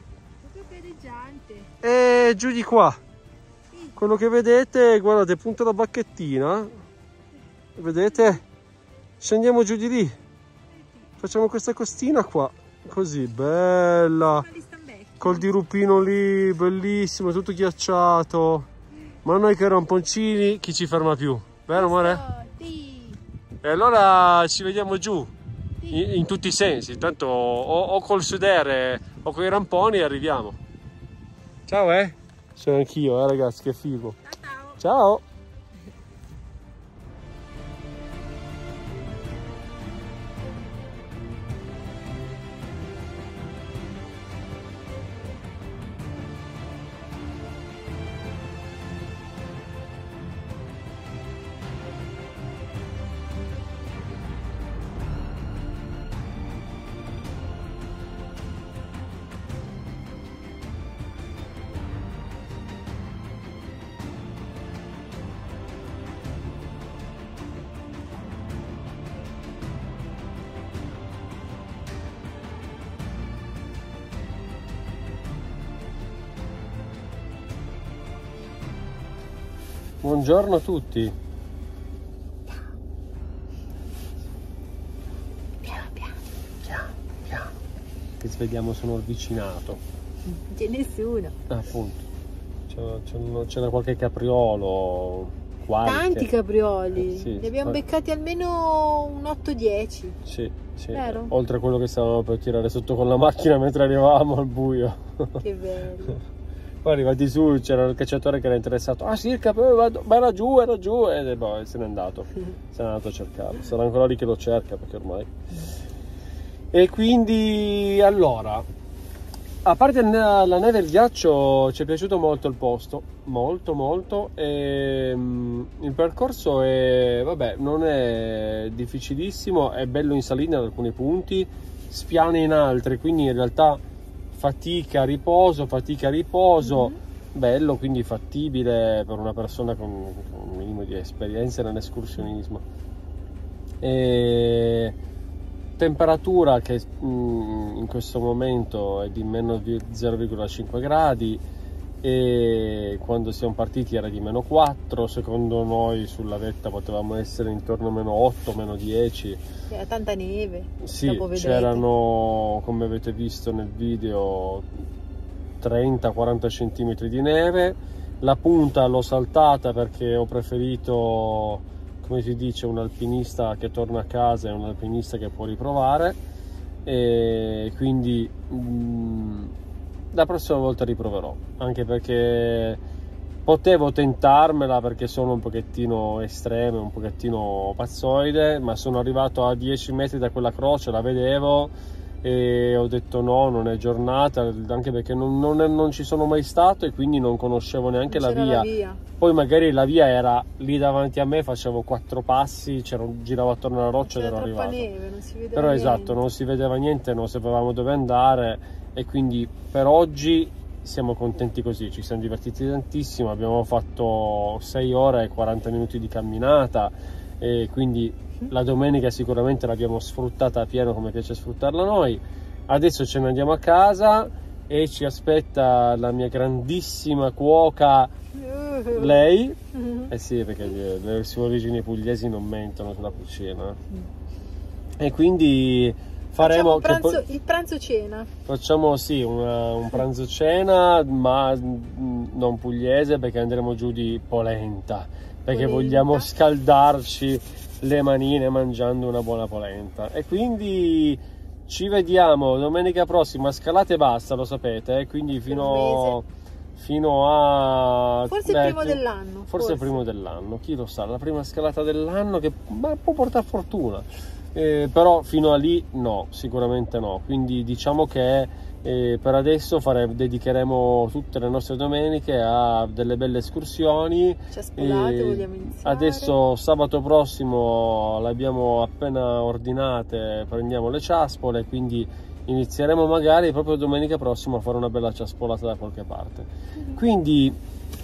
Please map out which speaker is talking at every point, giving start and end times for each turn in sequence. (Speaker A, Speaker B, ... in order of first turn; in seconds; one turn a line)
Speaker A: 0.4-1.7
Speaker B: 1.8-3.0
Speaker B: 4.0-6.8
Speaker B: 7.8-8.4
Speaker B: 9.2-10.2
Speaker B: 11.2-14.5
Speaker A: 14.4-15.3
Speaker B: 15.2-18.7
Speaker B: 19.2-22.2
Speaker A: 21.7-23.2
Speaker B: 23.6-30.6
Speaker B: 31.7-34.2
Speaker A: 34.3-34.8
Speaker B: 34.8-35.2
Speaker B: 80.0-81.2
Speaker A: 85.6-86.2
Speaker B: 86.6-87.5
Speaker B: 88.2-89.8
Speaker A: 90.3-91.3
Speaker B: 91.5-92.0
Speaker B: 92.7-96.3
Speaker A: 95.8-100.2
Speaker B: 97.0-97.8
Speaker B: 100.3-105.4
Speaker A: 100.9-101.3
Speaker A: 105.4-106.2
Speaker B: 106.8-115.3
Speaker B: 116.7-118.7
Speaker B: 119.6-133.8
Speaker B: 134.3-142.6
Speaker B: 143.8-145.0
Speaker B: 145.8-151.4
Speaker B: 152.0-159.4
Speaker A: 159.7-161.8
Speaker B: 160.8-164.7
Speaker B: 165.6-176.2
Speaker B: 176.8-179.5
Speaker B: 180.1-182.8
Speaker B: 183.4-204.9
Speaker A: 198.1-199.0
Speaker A: 204.0-206.2
Speaker B: 205.6-228.1
Speaker A: 228.3-229.2
Speaker B: 228.9-229.6
Speaker A: 229.8-230.1
Speaker B: 230.1-233.8
Speaker B: 235.0-237.2
Speaker A: 236.4-238.3
Speaker B: 238.5-287.6
Speaker A: 245.5-246.3
Speaker A: 255.5-256.2
Speaker A: 258.3-259.9
Speaker A: 274.5-276.4